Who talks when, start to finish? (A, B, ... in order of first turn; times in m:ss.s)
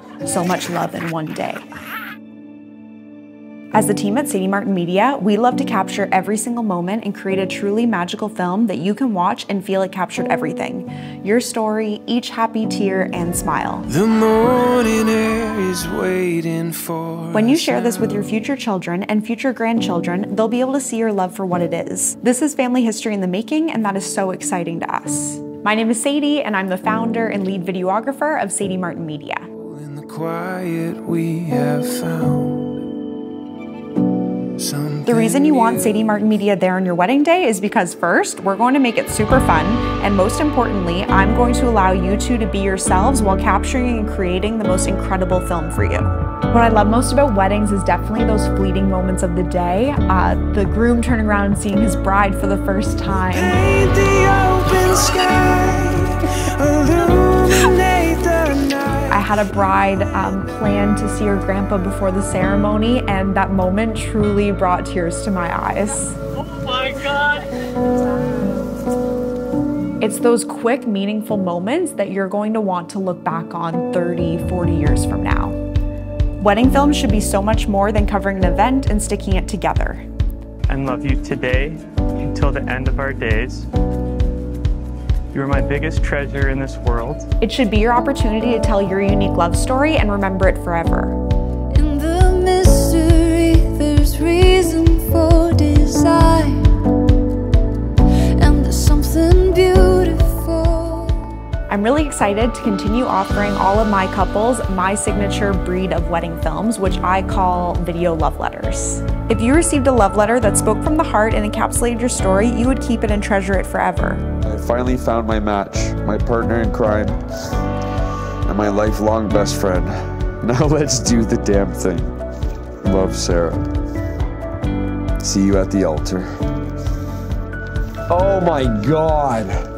0:00.2-0:01.6 A
0:03.7-0:13.9 A
0:13.9-0:18.2 B
0:17.3-0:29.5 A
0:29.6-0:32.8 B
0:34.6-0:36.2 B
0:35.0-0:53.6 A
0:53.2-0:59.3 B
0:59.1-1:06.2 A
1:06.4-1:07.5 C
1:10.0-1:15.6 A
1:16.4-1:20.0 A
1:20.7-1:23.7 C
1:25.3-1:27.3 C
1:27.4-1:31.2 A
1:31.7-1:36.9 D
1:38.4-1:41.4 D
1:41.7-1:54.2 A
1:54.4-1:57.2 E
1:58.4-2:02.1 E
2:02.8-2:03.6 E
2:05.2-2:06.3 E
2:08.1-2:09.5 E